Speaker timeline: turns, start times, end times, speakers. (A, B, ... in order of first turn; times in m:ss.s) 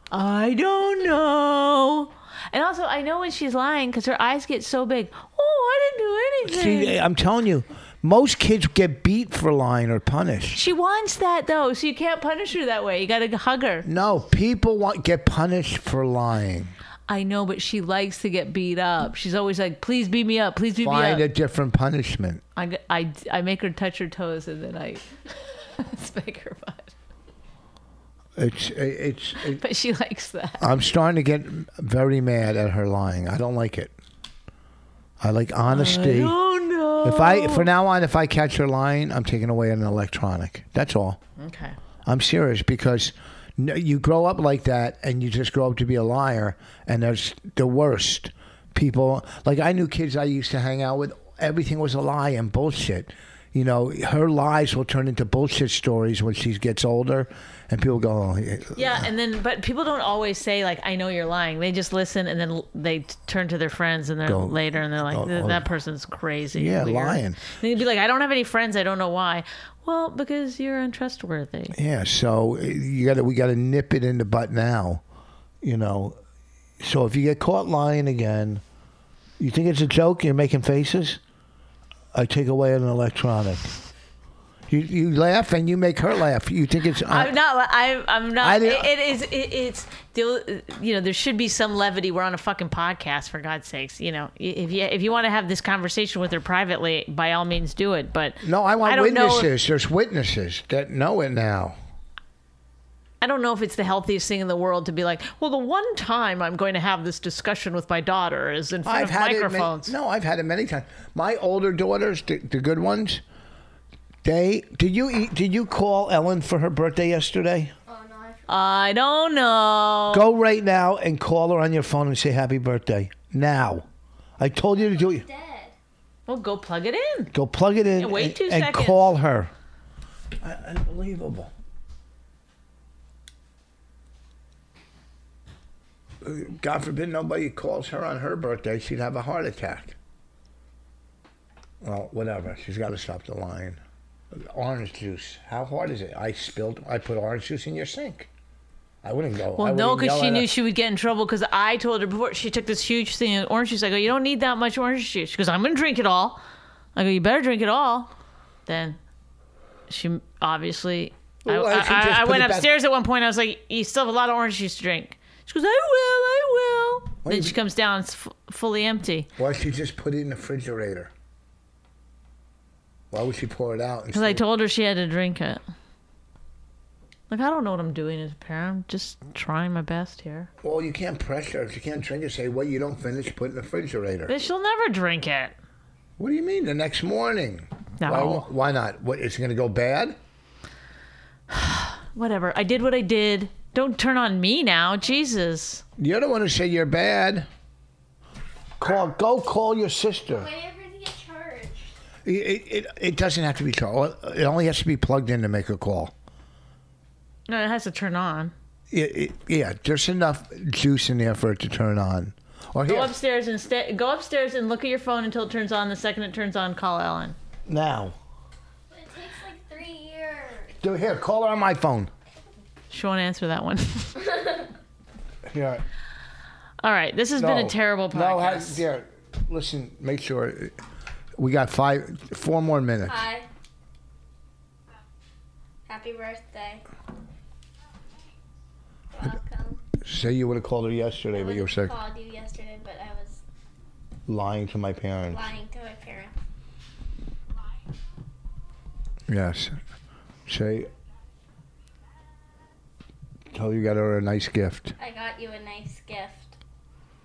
0:00.1-0:07.0 A
0:06.4-0:10.6 B
0:10.5-0:13.9 A
0:13.8-0:16.7 B
0:17.1-0:21.2 A
0:20.8-0:22.4 B
0:22.6-0:26.9 A
0:28.4-0:29.6 B
0:29.4-0:30.6 A
0:30.6-0:33.9 B
0:35.2-0:36.4 B
0:35.7-0:37.7 A
0:37.0-0:41.2 B
0:41.4-0:41.8 A
0:42.0-0:59.0 B
0:58.7-1:11.8 A
1:04.2-1:05.6 B
1:06.5-1:07.4 B
1:11.7-1:15.0 B
1:15.6-1:16.2 B
1:16.8-1:18.6 B
1:19.4-1:21.2 B
1:22.1-1:23.7 B
1:24.7-1:27.3 B
1:27.0-1:39.5 A
1:28.4-1:28.9 B
1:38.4-1:41.8 B
1:43.2-1:49.9 A
1:48.8-1:53.2 B
1:54.2-1:57.7 B
1:57.9-1:58.7 C
1:58.5-2:00.2 A
2:00.1-2:03.8 B
2:04.4-2:05.2 B
2:04.8-2:05.7 C
2:06.3-2:07.3 A
2:07.3-2:09.5 B
2:08.0-2:09.1 A
2:10.4-2:11.5 B
2:16.2-2:20.0 B
2:21.8-2:23.8 B
2:24.3-2:28.3 B
2:29.0-2:30.5 B
2:29.6-2:36.4 A
2:36.9-2:38.1 A
2:38.6-2:39.0 A
2:39.9-2:49.3 A
2:41.4-2:42.7 B
2:47.2-2:47.6 B
2:49.4-2:51.1 B
2:53.1-2:54.4 B
2:54.1-2:55.6 A
2:57.3-3:00.5 A
3:00.6-3:04.3 B
3:04.3-3:05.6 A
3:06.2-3:10.2 B
3:08.0-3:08.4 A
3:11.5-3:15.8 A
3:16.0-3:17.5 B
3:18.8-3:20.5 B
3:20.3-3:21.9 C
3:22.2-3:26.1 B
3:27.5-3:28.5 A
3:28.9-3:33.1 B
3:32.8-3:37.4 A
3:37.7-3:38.2 B
3:38.9-3:40.7 C
3:40.8-3:42.1 B
3:42.9-3:44.2 A
3:44.3-3:44.6 C
3:45.5-3:45.8 B
3:46.8-3:48.8 A
3:47.4-3:50.8 B
3:51.4-3:53.2 B
3:53.1-3:53.5 C
3:55.9-3:56.8 C
3:59.1-3:59.8 C
4:00.0-4:01.9 B
4:01.3-4:03.4 C
4:04.3-4:05.5 B
4:05.3-4:06.3 C
4:09.3-4:09.8 B
4:10.5-4:10.9 B
4:13.5-4:14.9 B
4:15.0-4:16.6 C